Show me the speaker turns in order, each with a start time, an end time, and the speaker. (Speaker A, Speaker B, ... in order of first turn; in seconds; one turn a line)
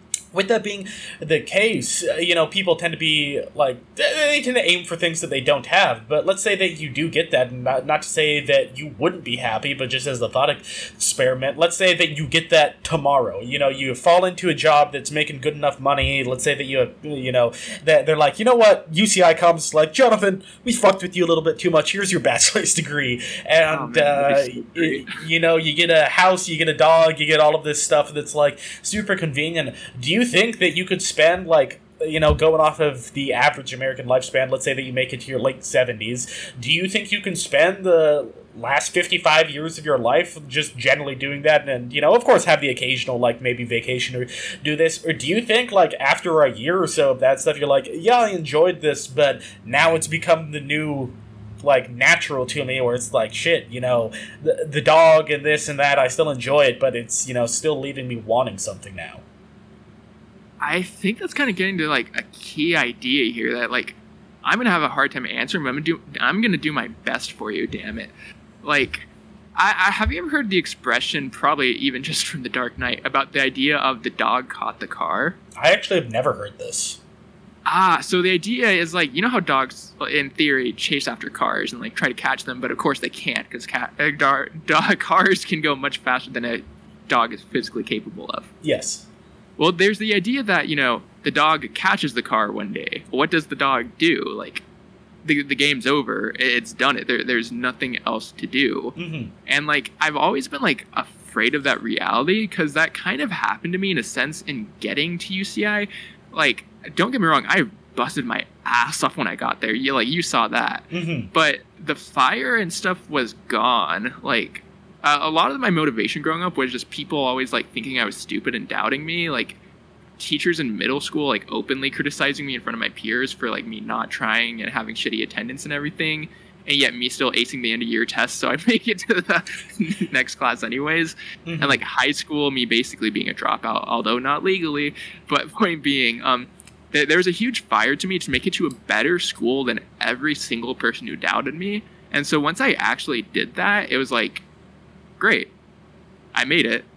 Speaker A: 0.3-59.2
Speaker B: 23.7-25.2
Speaker B: 60.6-68.1
Speaker B: 68.6-75.4
Speaker A: 75.5-77.0
Speaker B: 77.7-88.5
Speaker A: 88.6-89.0
Speaker B: 89.6-94.6
Speaker B: 95.2-119.6
Speaker A: 99.0-99.3
Speaker A: 110.9-111.3
Speaker B: 120.2-144.4
Speaker A: 131.4-131.8
Speaker B: 145.2-145.5
Speaker B: 146.3-146.9